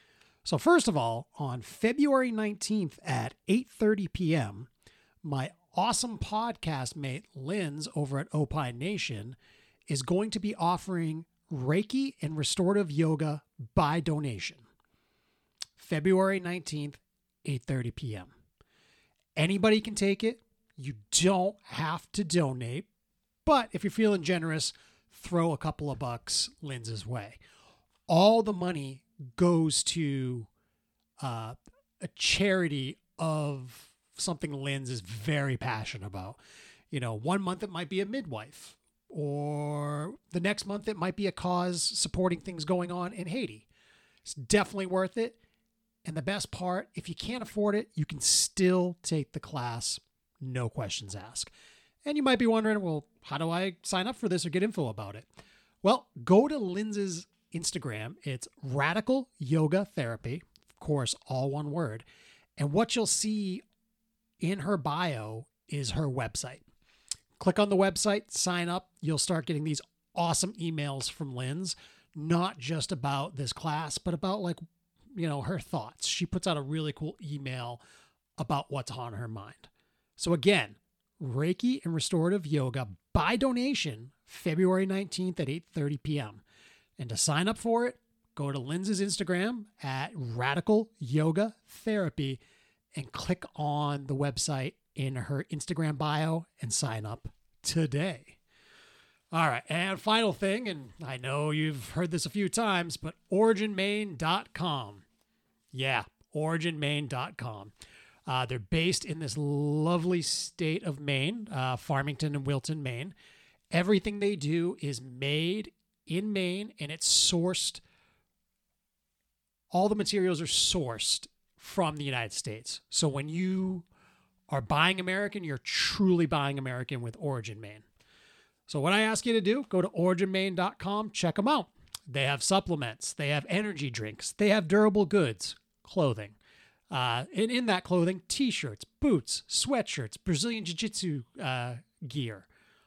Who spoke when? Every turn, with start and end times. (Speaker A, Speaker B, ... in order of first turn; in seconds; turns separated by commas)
Speaker A: 0.4-4.7, Speaker A: 5.2-14.6, Speaker A: 15.8-18.3, Speaker A: 19.4-22.9, Speaker A: 23.4-27.4, Speaker A: 28.1-30.5, Speaker A: 31.2-36.4, Speaker A: 36.9-43.7, Speaker A: 44.2-45.4, Speaker A: 46.0-51.5, Speaker A: 52.0-55.3, Speaker A: 55.8-62.0, Speaker A: 62.6-63.6, Speaker A: 64.4-66.6, Speaker A: 67.4-74.6, Speaker A: 75.1-77.8, Speaker A: 78.4-86.4, Speaker A: 87.0-92.4, Speaker A: 92.9-98.4, Speaker A: 99.3-105.0, Speaker A: 105.7-107.7, Speaker A: 108.2-113.1, Speaker A: 113.7-117.8, Speaker A: 119.7-123.9, Speaker A: 124.5-127.8, Speaker A: 128.7-136.4, Speaker A: 136.9-142.5